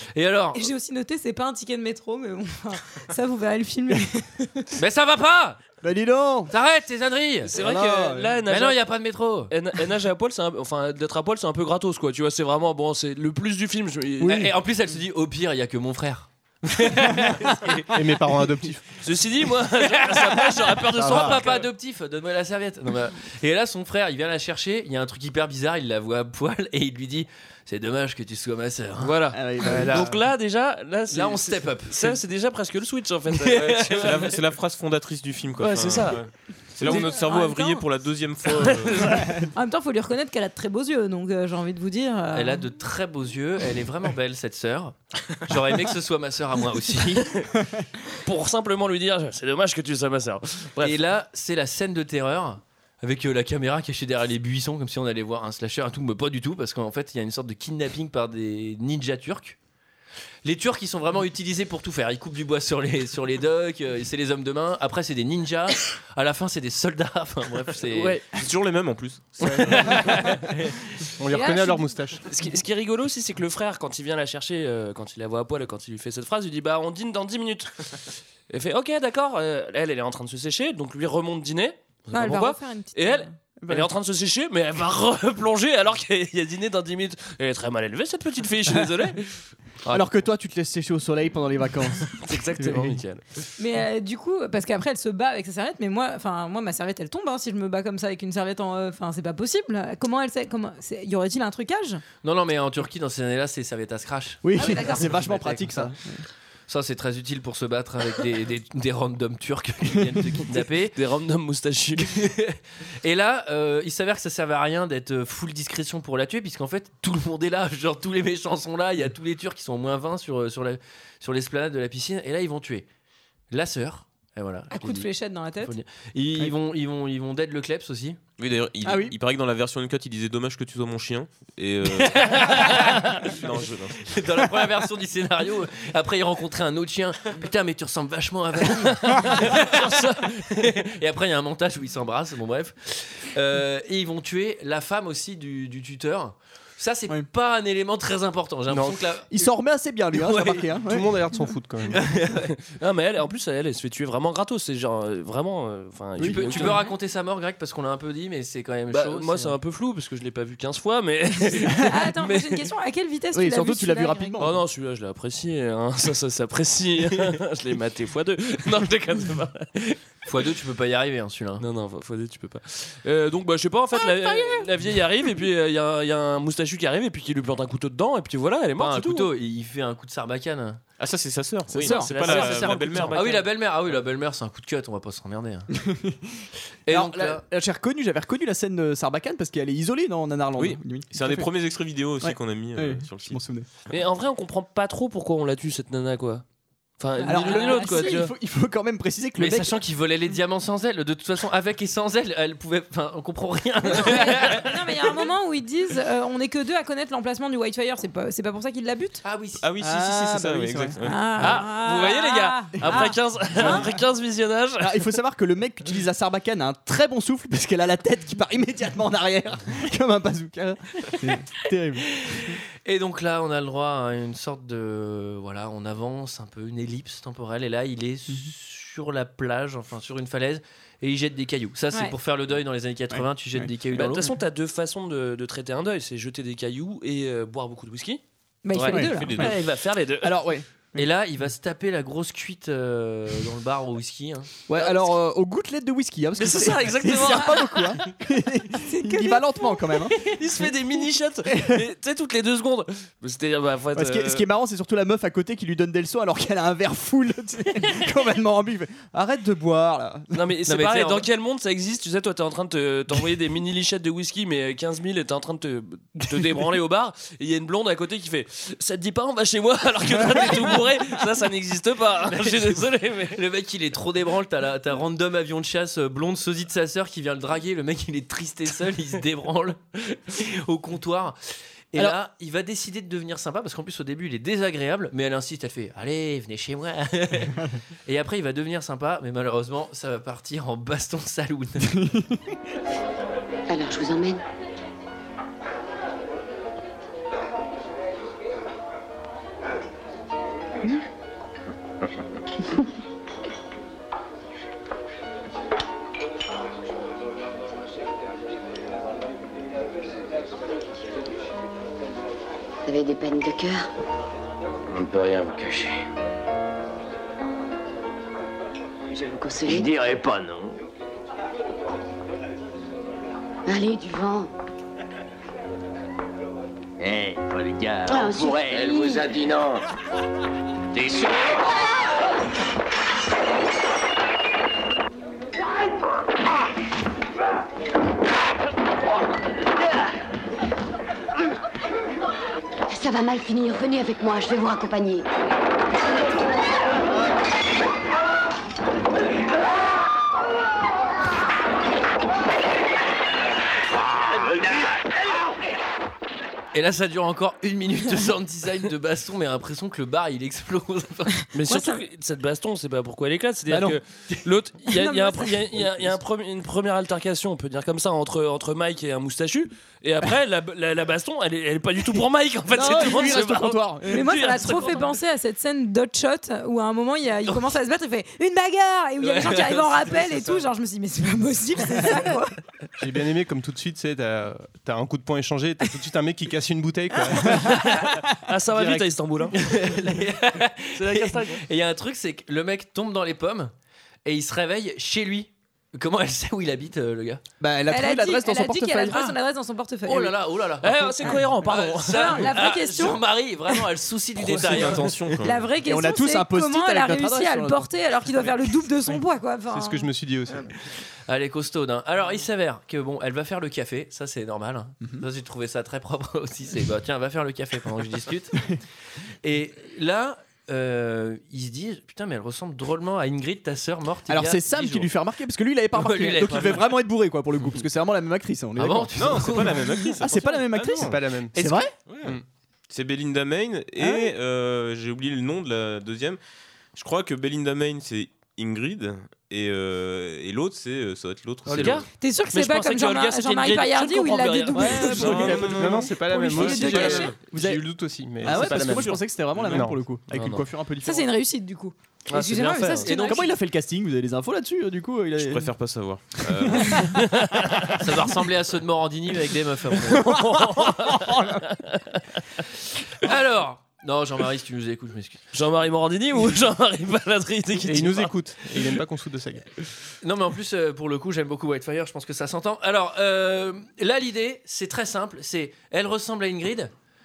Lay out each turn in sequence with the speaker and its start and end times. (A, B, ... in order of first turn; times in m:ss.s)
0:00.1-0:00.7 A
0:00.5-0:04.6 B
0:04.8-0:05.6 A
0:05.8-0:06.5 C
0:06.5-0:07.5 A
0:07.5-0:08.8 D
0:07.5-0:08.4 C
0:08.5-0:09.5 A
0:09.5-0:14.5 D
0:14.2-0:14.5 C
0:14.2-0:17.9 A
0:17.0-0:17.5 C
0:17.9-0:19.0 E
0:19.0-0:21.6 D
0:20.5-0:21.4 C
0:21.0-0:29.1 A
0:29.0-0:34.4 D
0:29.3-0:30.1 C
0:31.1-0:32.2 A
0:33.6-0:39.3 F
0:35.6-0:37.1 D
0:36.8-0:37.8 B
0:38.6-0:39.2 D
0:39.5-0:42.6 B
0:42.3-0:47.3 A
0:48.2-0:51.0 D
0:50.8-0:59.6 A
1:00.4-1:08.2 A
1:07.9-1:08.2 D
1:08.3-1:10.4 F
1:09.8-1:10.7 A
1:11.2-1:12.2 E
1:11.3-1:11.9 B
1:12.3-1:30.1 D
1:22.1-1:23.3 B
1:23.6-1:23.9 C
1:28.7-1:28.9 C
1:29.9-1:33.0 C
1:32.1-1:33.2 D
1:33.6-1:42.0 B
1:42.2-1:45.9 A
1:44.4-1:46.2 C
1:44.6-1:45.2 B
1:46.7-1:50.9 A
1:50.9-1:52.2 D
1:52.0-2:02.8 A
2:03.5-2:05.1 A
2:04.7-2:05.7 B
2:05.6-2:08.2 A
2:08.4-2:12.7 F
2:08.8-2:09.1 C
2:12.1-2:13.1 A
2:13.2-2:14.1 F
2:14.0-2:29.5 A
2:19.1-2:20.7 D
2:28.7-2:29.0 E
2:29.3-2:31.1 C
2:30.1-2:30.7 A
2:30.8-2:32.2 E
2:31.9-2:32.5 A
2:32.6-2:36.8 D
2:36.2-2:36.8 C
2:36.2-2:39.5 A
2:38.9-2:42.7 D
2:41.7-2:44.3 B
2:43.3-2:44.6 C
2:44.4-2:50.0 D
2:50.2-2:51.6 A
2:51.6-2:59.3 D
2:58.8-3:00.8 A
3:01.0-3:03.3 F
3:01.7-3:02.2 C
3:01.7-3:03.5 D
3:02.2-3:05.7 A
3:05.8-3:11.5 C
3:06.8-3:07.4 A
3:10.6-3:13.4 F
3:12.2-3:13.6 C
3:13.9-3:16.4 D
3:17.0-3:18.3 D
3:17.2-3:18.2 B
3:17.2-3:19.7 C
3:19.4-3:24.6 A
3:23.9-3:29.2 B
3:24.1-3:24.6 D
3:29.2-3:29.6 A
3:29.6-3:31.3 F
3:29.8-3:31.5 C
3:31.0-3:33.9 B
3:31.4-3:35.0 D
3:33.6-3:33.9 C
3:34.8-3:42.6 C
3:42.8-3:54.3 A
3:53.1-3:53.7 C
3:53.9-3:58.2 D
3:58.6-3:59.4 B
3:58.7-4:00.4 D
3:58.8-3:59.5 C
3:59.1-3:59.5 F
4:00.2-4:01.0 C
4:01.0-4:04.5 A
4:04.7-4:10.2 C
4:04.8-4:05.0 D
4:06.4-4:08.0 D
4:08.8-4:09.7 B
4:10.2-4:14.4 D
4:11.5-4:11.8 C
4:13.9-4:20.3 C
4:20.3-4:33.4 D
4:20.7-4:21.3 A
4:32.3-4:41.4 A
4:41.9-4:52.1 A
4:52.0-4:52.4 C
4:53.7-4:54.4 G
5:12.8-5:13.9 G
5:14.9-5:16.0 H
5:19.1-5:19.9 G
5:19.7-5:20.7 H
5:23.7-5:24.5 G
5:27.0-5:29.8 H
5:28.0-5:29.3 G
5:30.9-5:31.3 H
5:42.9-5:45.2 G
5:56.7-6:01.4 A
6:01.5-6:15.1 D
6:01.7-6:02.0 B
6:03.7-6:04.0 C
6:04.9-6:05.6 B
6:12.7-6:14.3 C
6:14.1-6:22.5 B
6:19.2-6:20.5 A
6:23.0-6:28.1 E
6:27.6-6:29.5 D
6:28.7-6:29.5 E
6:29.5-6:33.7 A
6:31.0-6:31.6 D
6:34.2-6:37.4 A
6:37.6-6:39.3 C
6:37.9-6:40.3 B
6:40.0-6:45.2 A
6:40.8-6:42.7 D
6:42.0-6:43.7 B
6:44.4-6:45.7 F
6:45.4-6:50.1 B
6:45.8-6:47.9 C
6:49.7-6:50.7 E
6:51.3-6:58.6 A
6:59.4-7:05.1 A
7:04.3-7:09.5 C
7:05.9-7:07.0 A
7:08.8-7:10.0 A
7:09.2-7:11.1 F
7:10.2-7:11.9 C
7:10.8-7:11.6 E
7:11.5-7:11.9 A
7:12.1-7:12.3 F
7:12.9-7:16.4 F
7:14.0-7:14.3 C
7:16.9-7:22.0 F
7:21.7-7:25.6 D
7:22.1-7:27.4 B
7:24.7-7:26.0 C
7:25.2-7:27.3 F
7:25.3-7:30.0 E
7:26.8-7:27.8 C
7:28.4-7:31.3 C
7:28.4-7:29.0 F
7:31.0-7:33.5 B
7:32.3-7:33.1 D
7:33.1-7:33.3 A
7:33.1-7:35.7 C
7:35.4-7:37.0 F
7:36.4-7:37.2 C
7:37.2-7:37.9 D
7:38.0-7:40.5 A
7:40.1-7:42.2 D
7:40.6-7:41.6 C
7:43.2-7:45.4 A
7:45.5-7:48.9 D
7:47.8-7:49.7 E
7:50.2-7:56.9 A